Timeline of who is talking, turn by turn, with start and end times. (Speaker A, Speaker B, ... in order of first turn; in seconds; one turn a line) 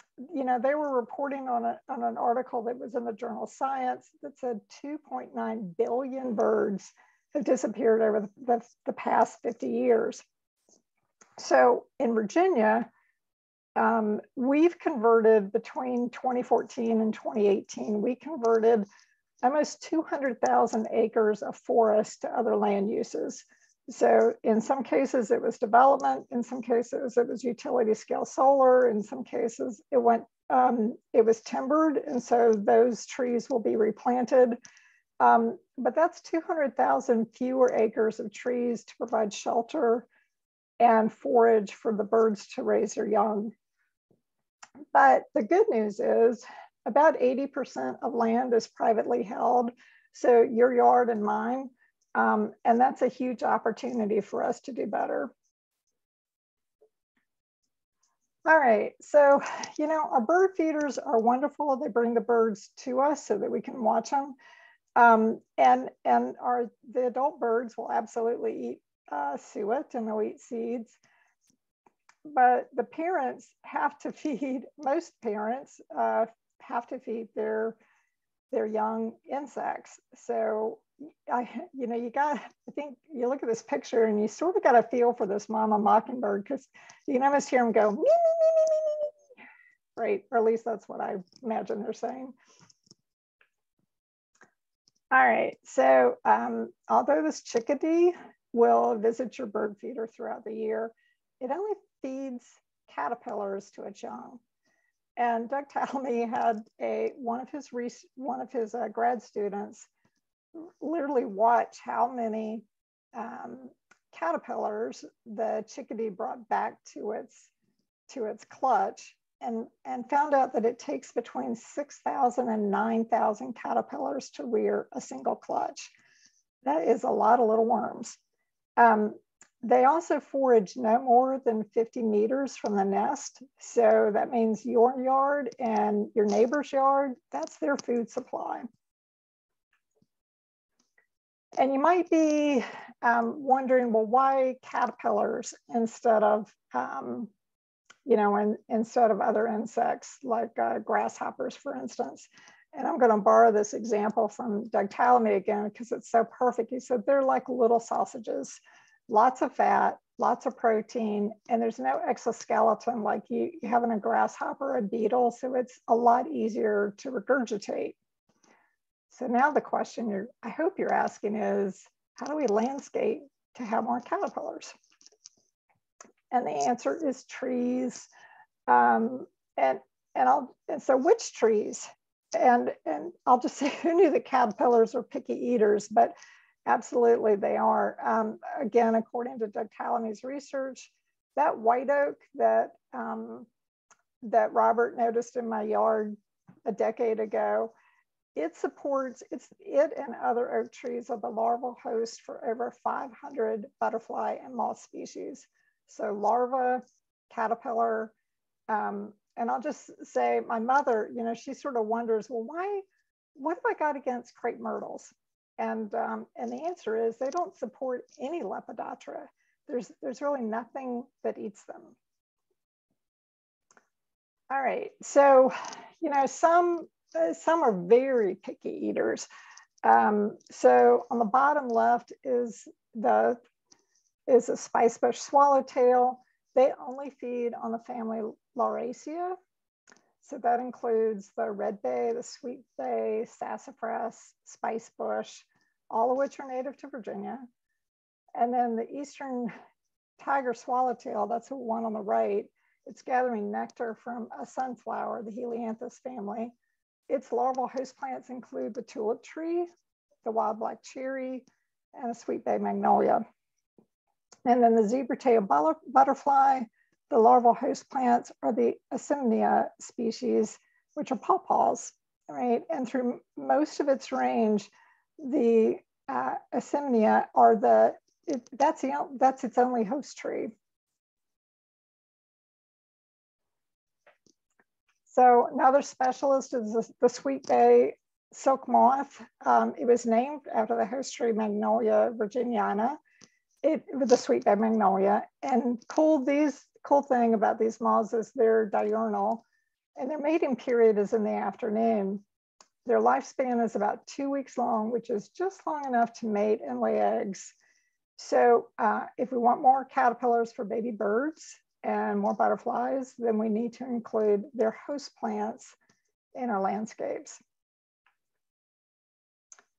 Speaker A: 0.2-10.2
Speaker A: 11.4-12.9
Speaker A: 13.8-18.9
Speaker A: 19.4-34.6
Speaker A: 35.2-40.1
Speaker A: 40.8-43.5
Speaker A: 44.9-55.3
Speaker A: 58.5-64.3
Speaker A: 65.0-71.0
Speaker A: 72.2-77.8
Speaker A: 78.5-89.2
Speaker A: 90.0-92.3
Speaker A: 95.1-104.4
Speaker A: 105.2-109.9
Speaker A: 110.5-117.5
Speaker A: 118.1-125.9
Speaker A: 126.6-128.2
Speaker A: 128.8-138.7
Speaker A: 141.6-147.3
Speaker A: 148.1-168.0
Speaker A: 169.1-174.8
Speaker A: 176.3-178.1
Speaker A: 178.7-186.2
Speaker A: 186.7-193.5
Speaker A: 194.2-197.7
Speaker A: 198.3-208.1
Speaker A: 208.7-212.8
Speaker A: 213.4-222.0
Speaker A: 224.5-229.3
Speaker A: 229.8-233.4
Speaker A: 234.3-239.4
Speaker A: 240.2-247.5
Speaker A: 248.4-249.5
Speaker A: 250.2-256.6
Speaker A: 257.1-259.7
Speaker A: 260.2-263.2
Speaker A: 264.5-280.5
Speaker A: 285.1-293.0
Speaker A: 293.6-299.4
Speaker A: 300.0-302.2
Speaker A: 302.9-307.5
Speaker A: 308.2-315.8
Speaker A: 316.4-317.4